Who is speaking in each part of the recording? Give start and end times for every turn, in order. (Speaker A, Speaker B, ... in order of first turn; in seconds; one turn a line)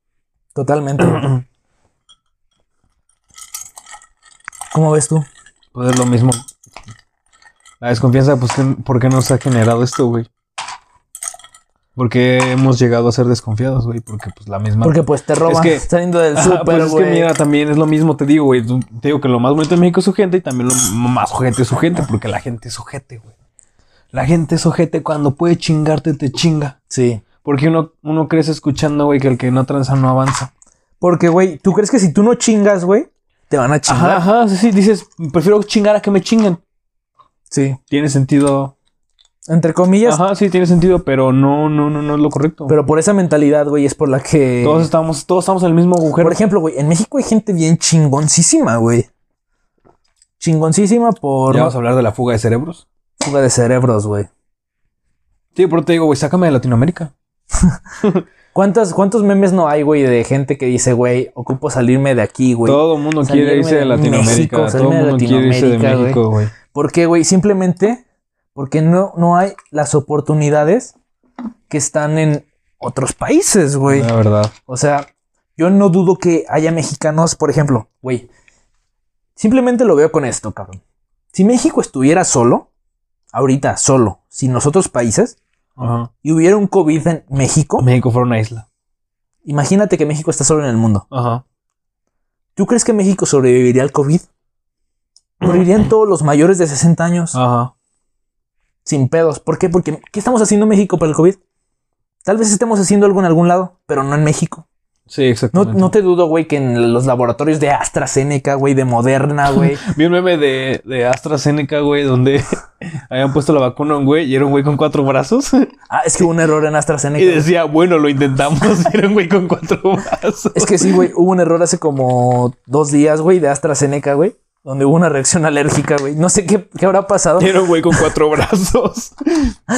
Speaker A: 0.5-1.3
Speaker B: 1.0-1.4
Speaker A: 4.7-5.2
Speaker B: 5.7-6.4
Speaker B: 7.8-10.3
Speaker B: 11.9-23.3
Speaker A: 14.8-17.3
Speaker B: 24.1-26.8
Speaker A: 26.9-27.2
Speaker B: 27.4-30.5
Speaker A: 31.0-34.3
Speaker B: 33.9-36.6
Speaker A: 37.5-37.8
Speaker B: 37.9-38.7
Speaker A: 39.5-40.2
Speaker B: 40.0-42.7
Speaker A: 42.7-44.9
Speaker B: 44.6-46.4
Speaker A: 46.2-49.1
Speaker A: 50.4-51.7
Speaker B: 51.5-52.8
Speaker A: 53.2-54.3
Speaker B: 55.5-57.1
Speaker A: 58.5-68.0
Speaker B: 62.6-66.5
Speaker A: 68.5-70.9
Speaker A: 71.7-74.1
Speaker B: 73.9-74.5
Speaker A: 74.7-78.3
Speaker A: 79.4-80.8
Speaker A: 81.3-82.7
Speaker A: 83.3-85.4
Speaker B: 85.8-86.1
Speaker A: 86.2-87.9
Speaker B: 87.8-88.7
Speaker A: 89.4-91.0
Speaker B: 91.1-91.4
Speaker A: 92.5-94.3
Speaker A: 95.4-97.4
Speaker B: 97.3-97.7
Speaker A: 98.8-101.4
Speaker A: 102.2-104.7
Speaker B: 105.1-105.9
Speaker A: 105.5-109.8
Speaker B: 109.5-115.7
Speaker A: 115.9-117.5
Speaker B: 117.2-121.1
Speaker A: 120.5-128.0
Speaker B: 127.4-129.6